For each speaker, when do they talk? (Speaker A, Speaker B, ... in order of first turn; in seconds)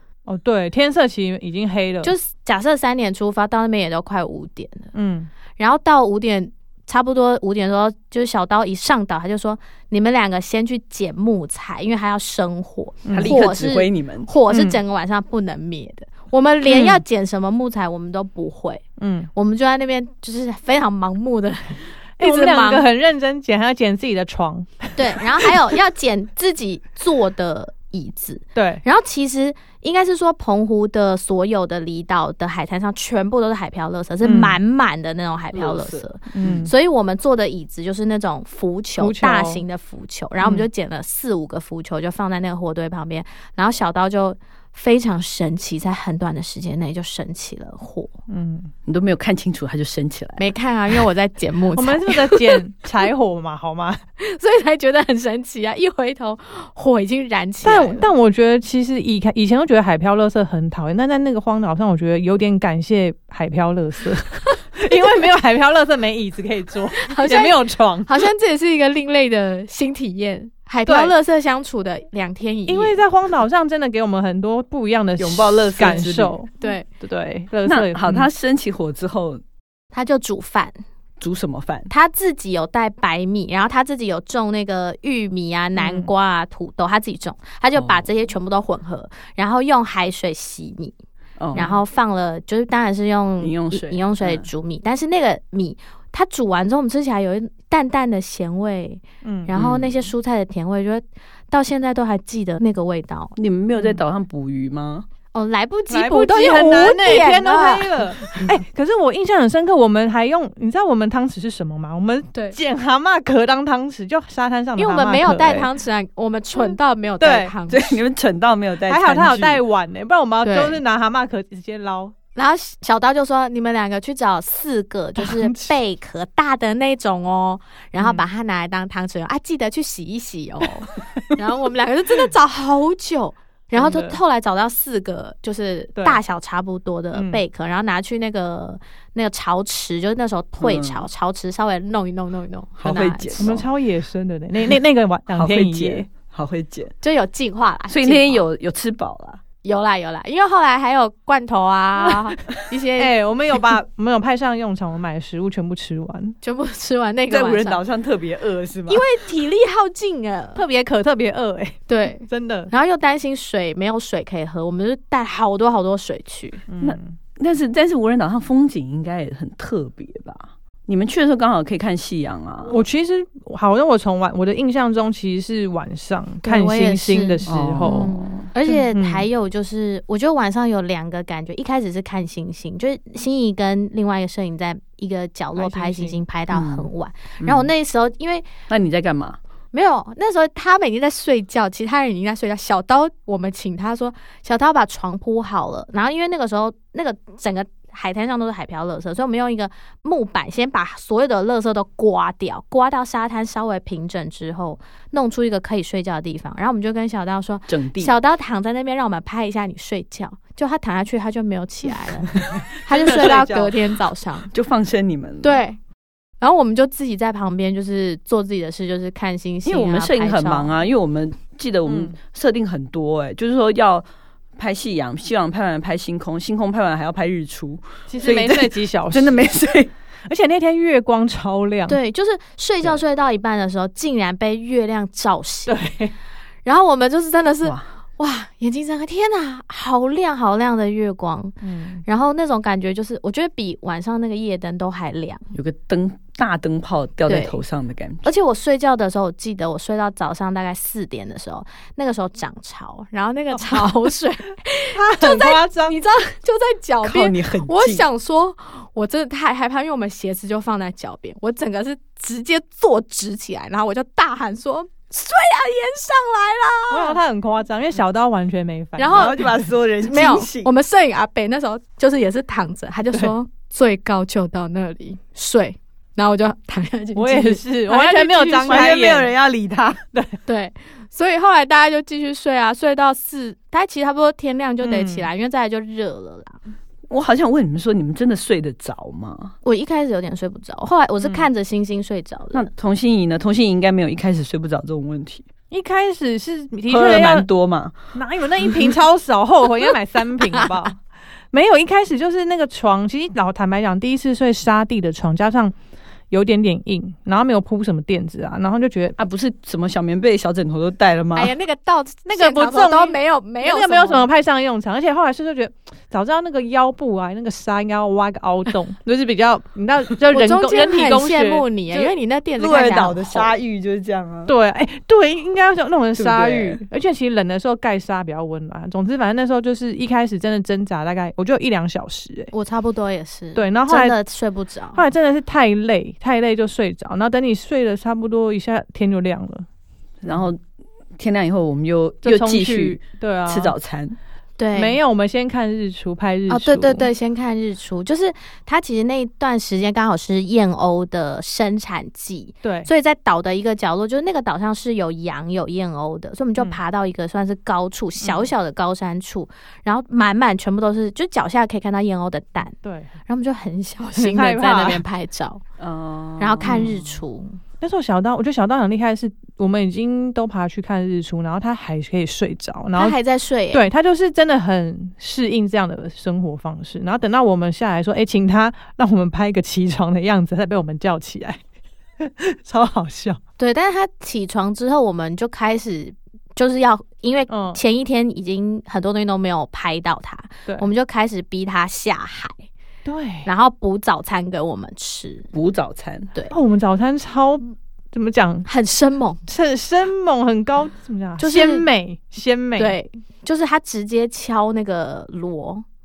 Speaker A: 0.3-2.1, 4.9-5.3, 13.1-13.4, 14.5-14.8, 16.6-17.0, 19.0-19.3, 22.2-25.7, 28.6-28.8, 34.2-34.6, 36.3-36.7, 39.0-39.6, 40.4-40.7, 48.3-48.7, 51.8-54.0, 57.6-68.3, 70.9-71.1, 72.7-78.3, 85.8-86.1, 99.2-99.5, 105.9-115.7, 116.6-117.5, 118.9-122.1, 125.2-125.8, 133.8-134.2, 137.1-137.4, 143.4-146.1, 153.0-156.4, 160.6-162.7, 166.7-167.2, 172.7-178.1, 178.7-179.3, 185.6-186.2, 212.3-213.8, 221.9-222.2, 228.1-229.5, 230.3-232.0, 235.7-236.1, 241.6-242.0, 253.6-253.9, 254.9-256.0, 266.9-269.5, 277.1-279.3, 284.8-285.3, 295.7-297.5, 298.1-301.0, 301.5-305.7, 306.3-309.2, 312.3-321.7, 324.5-332.5, 333.6-334.2, 334.9-339.7, 342.2-343.7, 344.7-347.1, 352.6-352.9, 358.2-358.5, 362.8-363.1, 364.2-365.0, 366.6-367.0, 367.8-373.2, 373.7-381.6, 382.2-383.4, 387.5-387.8, 393.1-393.5, 396.5-398.7, 399.5-403.0
Speaker B: 2.0-4.9, 5.6-18.8, 19.3-22.9, 25.0-48.1, 50.4-52.6, 54.2-58.1, 67.0-73.0, 76.6-76.9, 79.9-80.8, 81.9-91.0, 91.5-103.3, 105.3-108.5, 114.8-118.0, 120.4-120.8, 122.4-143.6, 147.0-148.4, 149.6-153.1, 156.4-157.8, 158.9-160.6, 161.9-166.6, 176.4-188.5, 189.7-214.5, 215.4-215.8, 216.4-220.8, 231.9-235.8, 236.7-245.5, 247.3-247.6, 248.2-267.2, 269.0-269.4, 270.0-279.0, 280.5-286.6, 289.6-292.7, 311.4-314.3, 320.3-323.5, 332.5-335.0, 344.6-345.0, 346.5-362.8, 363.3-365.6, 366.4-367.6, 373.0-373.8, 383.6-392.7, 393.4-395.5, 398.6-399.4, 401.4-401.9, 402.8-405.9
Speaker C: 13.1-14.3, 35.5-36.7, 48.9-50.5, 75.2-76.3, 77.7-79.4, 81.2-81.9, 87.8-88.0, 91.4-91.8, 93.4-94.5, 99.5-100.1, 103.4-105.1, 117.7-119.6, 140.6-141.1, 142.8-143.7, 145.3-146.9, 147.9-149.4, 157.3-159.1, 166.8-172.8, 177.5-178.5, 186.5-186.9, 187.4-187.7, 188.7-189.4, 207.7-208.1, 214.5-215.6, 219.7-224.1, 224.6-229.9, 245.5-248.3, 257.0-258.1, 269.1-270.7, 278.7-280.0, 287.1-289.6, 292.5-295.5, 296.9-297.9, 309.2-311.5, 321.9-324.5, 326.2-326.8, 340.2-340.6, 341.2-344.2, 365.8-366.9, 395.5-396.3